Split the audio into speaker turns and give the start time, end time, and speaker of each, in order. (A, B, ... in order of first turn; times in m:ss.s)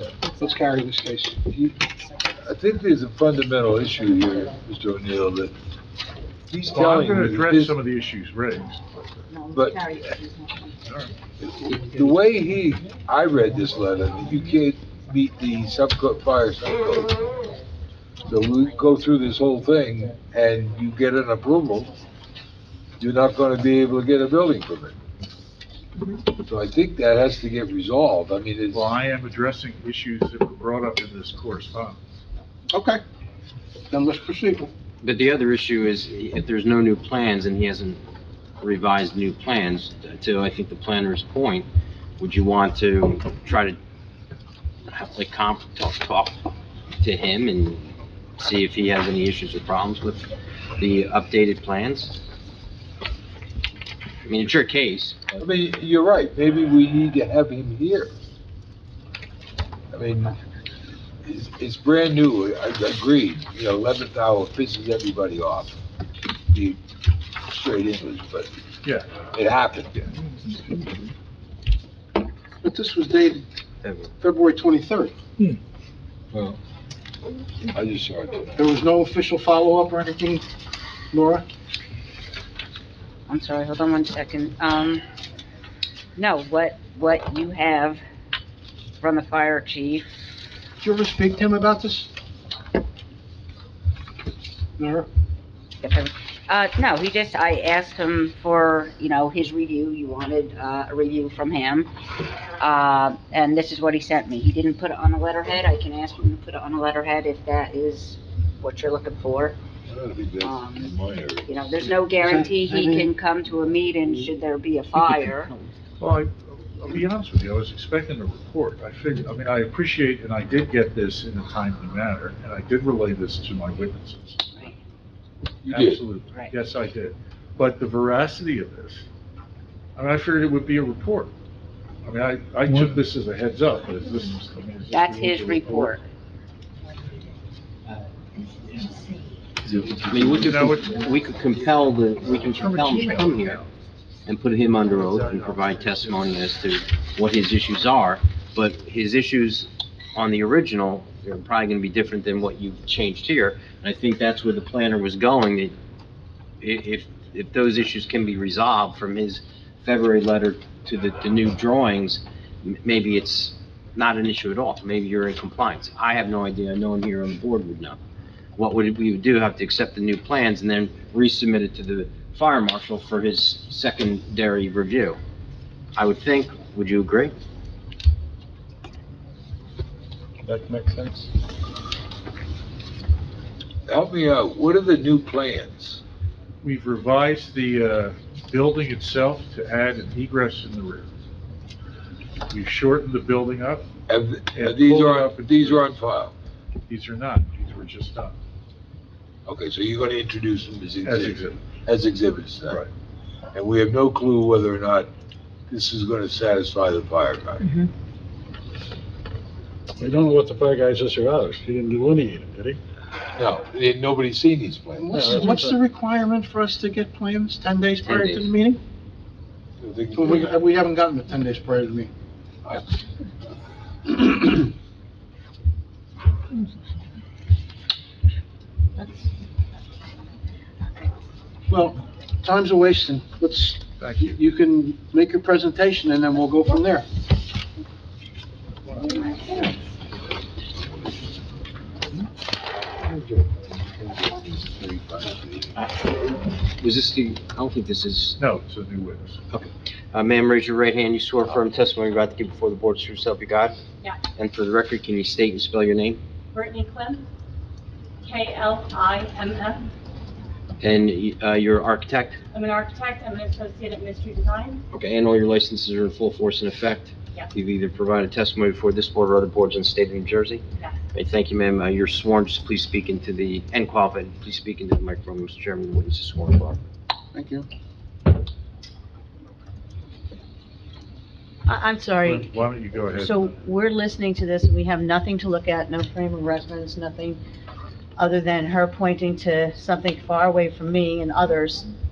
0:00.4-0:01.8 A
0:02.4-0:05.5 B
0:06.5-0:07.8 B
0:06.7-0:08.8 C
0:09.3-0:10.7 D
0:09.5-0:10.1 B
0:10.9-0:11.1 C
0:11.4-0:17.2 B
0:18.3-0:21.9 B
0:23.0-0:25.0 B
0:26.3-0:28.9 B
0:28.7-0:32.0 C
0:32.7-0:33.0 A
0:33.9-0:34.7 A
0:35.0-0:38.0 E
0:38.6-0:41.7 E
0:42.2-0:43.8 E
0:44.9-0:46.4 E
0:47.0-0:52.1 E
0:54.3-0:55.2 E
0:55.4-0:58.1 B
0:59.9-1:00.4 B
1:01.2-1:05.8 B
1:06.5-1:06.8 B
1:07.5-1:08.5 B
1:08.8-1:09.1 C
1:09.3-1:10.0 B
1:12.6-1:13.4 A
1:13.8-1:14.1 E
1:14.2-1:15.1 A
1:16.3-1:16.6 B
1:17.7-1:18.5 B
1:18.6-1:20.4 A
1:21.1-1:21.4 A
1:23.3-1:25.0 D
1:26.2-1:28.0 D
1:29.0-1:30.1 D
1:30.8-1:32.1 A
1:34.8-1:35.1 A
1:35.8-1:41.9 D
1:42.6-1:49.6 D
1:49.9-1:52.0 B
1:50.4-1:55.5 D
1:52.2-1:53.1 A
1:56.0-2:04.4 C
2:05.6-2:06.0 B
2:05.7-2:09.1 C
2:10.0-2:11.3 C
2:12.0-2:16.0 C
2:14.9-2:16.0 D
2:20.1-2:23.7 E
2:20.3-2:20.9 C
2:22.7-2:23.3 C
2:24.3-2:35.8 E
2:36.6-2:48.0 E
2:48.6-2:55.2 E
2:56.0-2:57.3 E
3:00.5-3:01.2 F
3:03.9-3:06.0 B
3:06.6-3:11.1 C
3:12.5-3:13.9 C
3:14.1-3:16.3 B
3:14.5-3:16.0 C
3:16.9-3:18.4 C
3:19.5-3:22.8 B
3:21.0-3:21.6 C
3:23.5-3:25.1 B
3:25.7-3:27.8 B
3:30.0-3:32.8 F
3:33.4-3:35.4 B
3:35.0-3:38.8 A
3:35.1-3:35.8 F
3:38.0-3:38.5 E
3:39.8-3:40.6 B
3:40.1-3:42.1 A
3:44.1-3:44.7 A
3:51.7-3:57.1 A
3:54.0-3:54.4 C
4:03.0-4:05.8 B
4:06.8-4:08.4 E
4:08.4-4:09.4 C
4:09.5-4:13.8 E
4:14.3-4:16.2 E
4:16.5-4:17.2 G
4:18.2-4:19.9 G
4:20.8-4:22.4 E
4:22.5-4:24.8 G
4:24.9-4:36.8 E
4:37.3-4:37.7 A
4:41.7-4:42.5 H
4:42.2-4:43.5 C
4:43.1-4:47.4 H
4:48.2-4:51.9 H